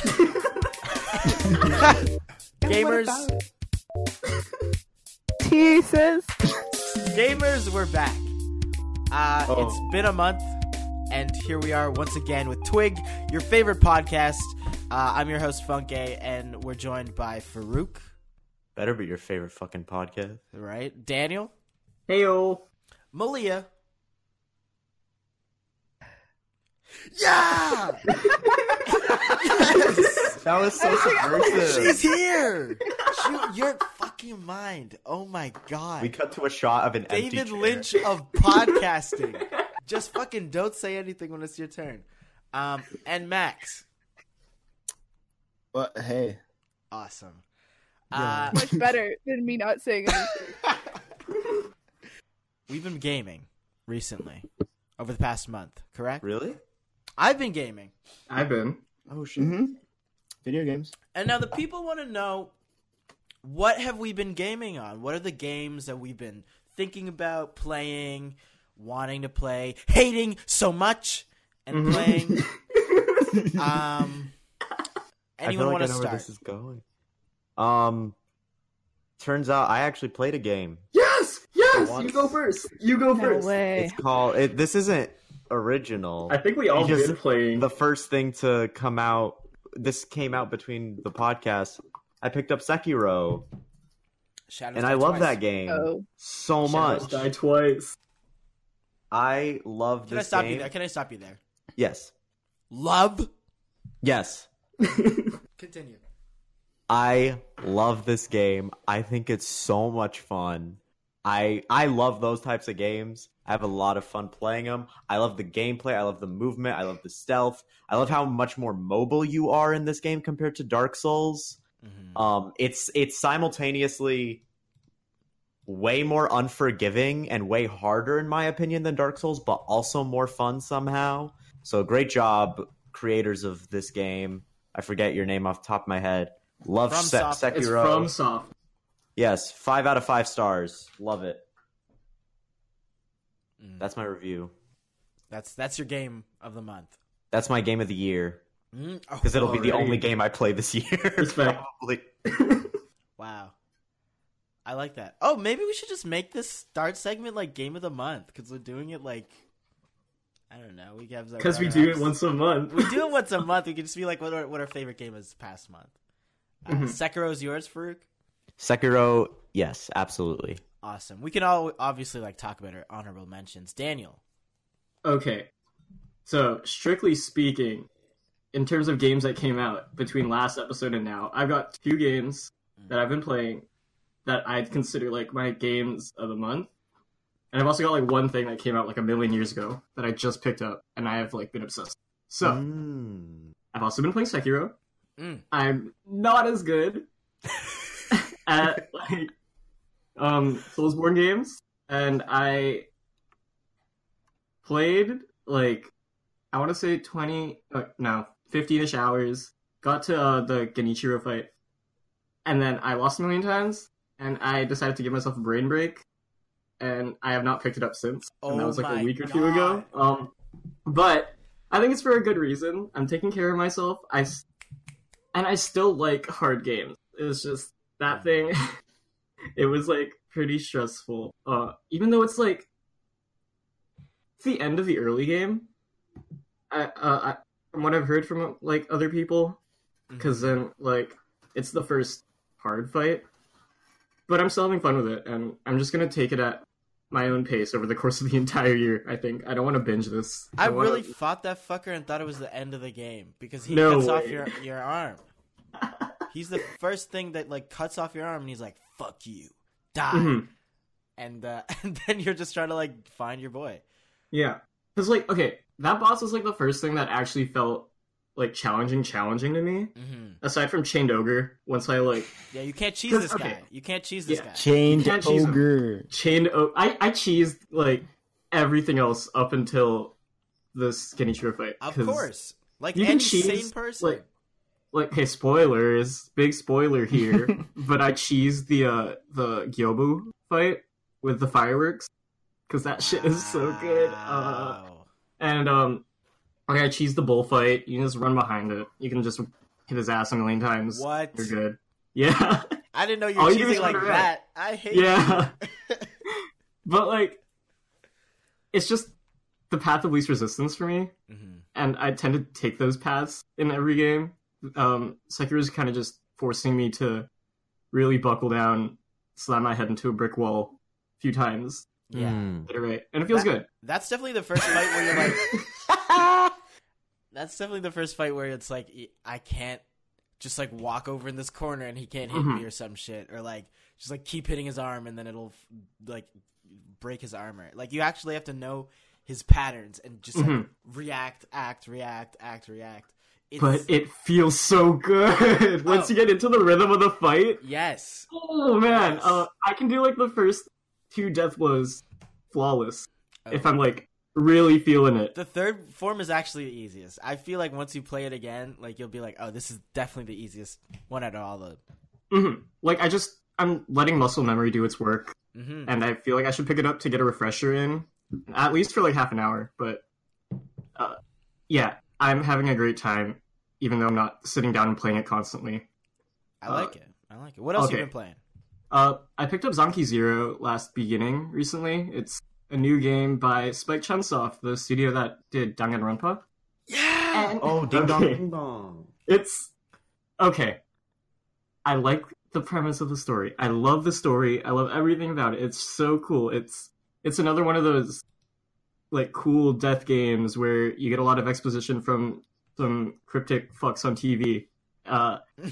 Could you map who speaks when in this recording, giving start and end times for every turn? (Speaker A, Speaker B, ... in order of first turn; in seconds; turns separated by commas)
Speaker A: 0.1-0.4, Speaker B: 1.3-2.0, Speaker C: 2.6-3.4, Speaker B: 2.6-3.3, Speaker C: 5.4-6.3, Speaker B: 7.0-8.3, Speaker B: 9.1-10.6, Speaker D: 9.4-9.8, Speaker B: 11.1-18.1, Speaker D: 18.8-20.4, Speaker B: 20.5-21.5, Speaker A: 22.1-22.6, Speaker B: 23.1-23.7, Speaker B: 27.1-28.1, Speaker B: 28.9-36.1, Speaker D: 29.6-32.0, Speaker C: 30.8-31.1, Speaker D: 36.0-37.9, Speaker B: 37.1-43.9, Speaker E: 45.7-46.4, Speaker B: 46.9-47.4, Speaker B: 48.1-48.6, Speaker D: 48.1-48.5, Speaker E: 48.3-48.9, Speaker C: 48.5-50.5, Speaker B: 52.7-54.5, Speaker B: 55.0-56.2, Speaker D: 56.2-56.6, Speaker B: 57.2-57.9, Speaker A: 58.3-58.8, Speaker D: 59.1-59.5, Speaker E: 59.4-59.7, Speaker E: 60.4-60.9, Speaker B: 61.1-62.5, Speaker B: 63.4-72.5, Speaker A: 71.7-73.5, Speaker B: 73.5-74.3, Speaker B: 75.4-76.3, Speaker D: 75.4-76.8, Speaker D: 77.6-78.1, Speaker D: 79.2-80.8, Speaker A: 80.9-83.5, Speaker D: 81.7-82.4, Speaker C: 83.1-84.0, Speaker D: 83.7-93.5, Speaker A: 86.3-87.7, Speaker B: 94.5-95.4, Speaker D: 94.7-97.2, Speaker C: 95.7-96.0, Speaker A: 96.7-98.0, Speaker B: 96.7-97.2, Speaker D: 99.1-100.7, Speaker B: 100.1-101.4, Speaker D: 101.8-102.1, Speaker B: 102.7-103.3, Speaker D: 104.0-104.5, Speaker A: 104.8-105.4, Speaker B: 105.6-106.0, Speaker D: 106.9-121.6, Speaker B: 121.8-122.2, Speaker D: 122.1-124.4, Speaker D: 125.7-138.1, Speaker B: 136.9-137.6, Speaker A: 137.5-138.5, Speaker D: 139.2-141.4, Speaker B: 143.6-143.9, Speaker D: 143.8-144.5, Speaker B: 145.3-146.9, Speaker D: 147.3-148.4, Speaker B: 148.7-149.8, Speaker D: 149.2-152.1, Speaker A: 149.4-150.0, Speaker A: 151.2-151.6, Speaker A: 152.2-152.8, Speaker B: 153.2-153.5, Speaker B: 154.6-159.3, Speaker B: 160.5-162.1, Speaker A: 161.4-163.0, Speaker B: 162.7-165.9, Speaker B: 166.6-168.1, Speaker A: 166.7-167.0, Speaker D: 168.6-170.6, Speaker B: 170.8-174.2, Speaker A: 175.0-175.5, Speaker A: 176.2-177.9, Speaker A: 178.5-183.6, Speaker A: 184.2-186.7, Speaker A: 187.5-192.6, Speaker D: 192.4-193.5, Speaker A: 193.7-194.8, Speaker B: 195.2-195.4, Speaker A: 195.5-197.1, Speaker A: 198.1-199.3, Speaker A: 200.2-202.9, Speaker A: 204.6-205.9, Speaker A: 206.5-211.5, Speaker A: 212.4-216.0, Speaker A: 216.8-220.3, Speaker B: 218.4-219.9, Speaker A: 220.8-224.4, Speaker A: 225.3-228.7, Speaker A: 229.6-232.7, Speaker A: 234.4-235.7, Speaker A: 236.7-239.6, Speaker B: 240.1-240.6, Speaker A: 240.2-243.2, Speaker A: 244.3-251.1, Speaker B: 250.6-255.2, Speaker A: 253.6-254.5, Speaker A: 255.8-256.1, Speaker B: 256.3-260.4, Speaker A: 260.1-260.5, Speaker B: 261.2-263.8, Speaker A: 264.3-272.4, Speaker B: 269.9-270.4, Speaker B: 272.5-274.7, Speaker A: 273.1-273.6, Speaker A: 274.3-280.1, Speaker E: 274.6-276.1, Speaker A: 280.7-282.3, Speaker B: 281.8-284.2, Speaker A: 282.9-284.2, Speaker A: 284.9-292.1, Speaker A: 292.7-294.8, Speaker B: 293.0-295.1, Speaker A: 295.4-296.0, Speaker A: 296.7-302.8, Speaker B: 300.9-301.5, Speaker B: 302.9-306.1, Speaker A: 303.3-304.3, Speaker A: 304.9-305.5, Speaker A: 306.2-307.4, Speaker A: 308.7-309.1, Speaker A: 309.7-311.1, Speaker B: 311.3-311.6, Speaker A: 311.7-317.3, Speaker A: 317.9-323.7, Speaker B: 322.1-322.5, Speaker D: 322.1-322.7, Speaker B: 323.3-325.5, Speaker A: 325.0-325.6, Speaker B: 327.3-329.8, Speaker B: 330.4-343.9, Speaker A: 332.3-332.6, Speaker A: 340.3-340.7, Speaker A: 343.6-347.6, Speaker B: 345.9-346.1, Speaker B: 347.6-348.3, Speaker A: 348.3-355.3, Speaker B: 348.8-349.4, Speaker B: 353.4-353.7, Speaker B: 355.3-361.8, Speaker A: 362.3-370.0, Speaker B: 365.5-365.9, Speaker A: 371.7-375.9, Speaker B: 376.6-378.4, Speaker A: 376.7-376.9, Speaker A: 377.7-378.1, Speaker A: 378.9-386.4, Speaker B: 386.9-387.6, Speaker A: 387.3-388.4, Speaker D: 387.6-389.1, Speaker A: 389.3-389.7, Speaker A: 390.4-390.8, Speaker A: 391.8-398.2, Speaker A: 399.1-405.4